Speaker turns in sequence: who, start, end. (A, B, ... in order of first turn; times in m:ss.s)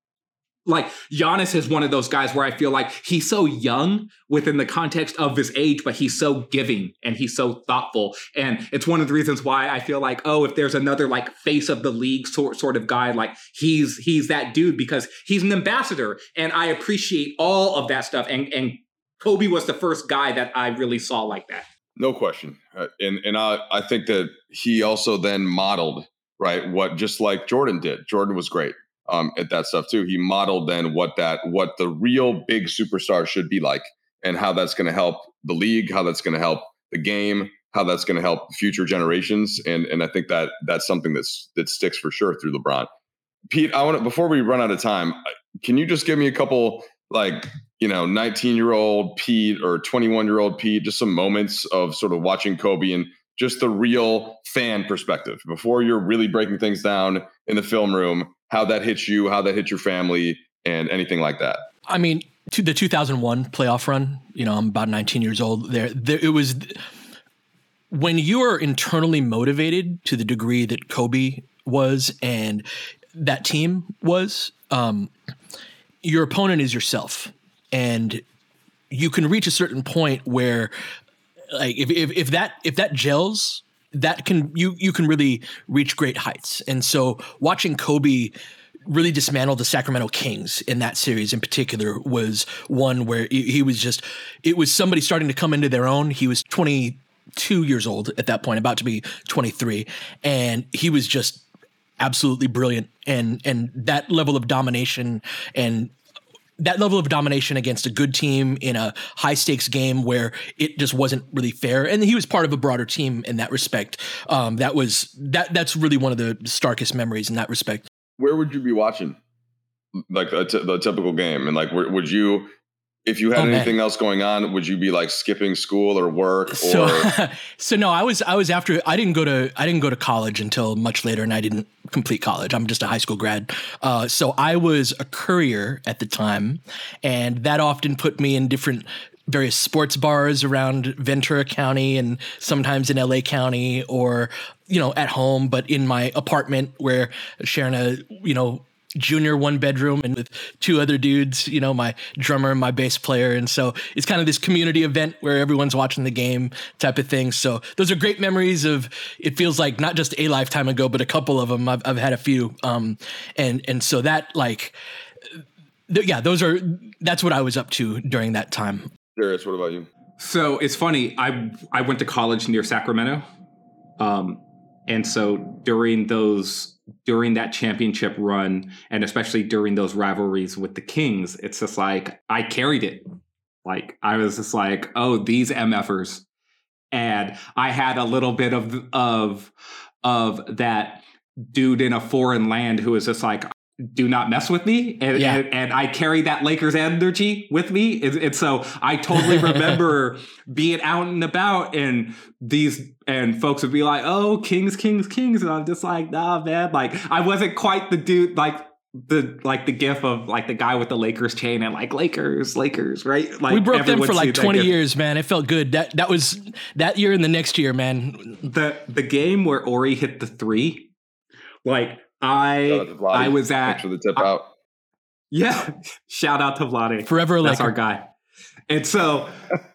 0:00.7-0:21.7 A
0:22.0-0:42.9 B
0:43.5-1:01.6 B
1:01.9-1:06.8 C
1:07.9-1:15.1 C
1:16.0-1:18.2 C
1:18.9-1:20.7 C
1:21.5-1:28.4 C
1:28.9-1:41.4 C
1:42.0-1:45.9 C
1:46.6-1:57.9 C
1:58.2-1:59.2 B
2:00.0-2:02.5 B
2:03.1-2:07.1 B
2:03.4-2:03.7 C
2:06.5-2:44.8 C
2:45.9-2:48.9 C
2:49.2-2:49.9 B
2:50.2-2:53.2 A
2:54.0-3:03.1 A
3:03.6-3:06.2 A
3:06.9-3:09.5 A
3:10.0-3:34.8 A
3:15.2-3:15.4 C
3:33.5-3:38.4 C
3:38.4-3:40.9 A
3:41.6-3:44.3 A
3:42.7-3:44.5 B
3:45.3-3:48.0 A
3:47.0-3:47.8 C
3:48.7-3:49.3 A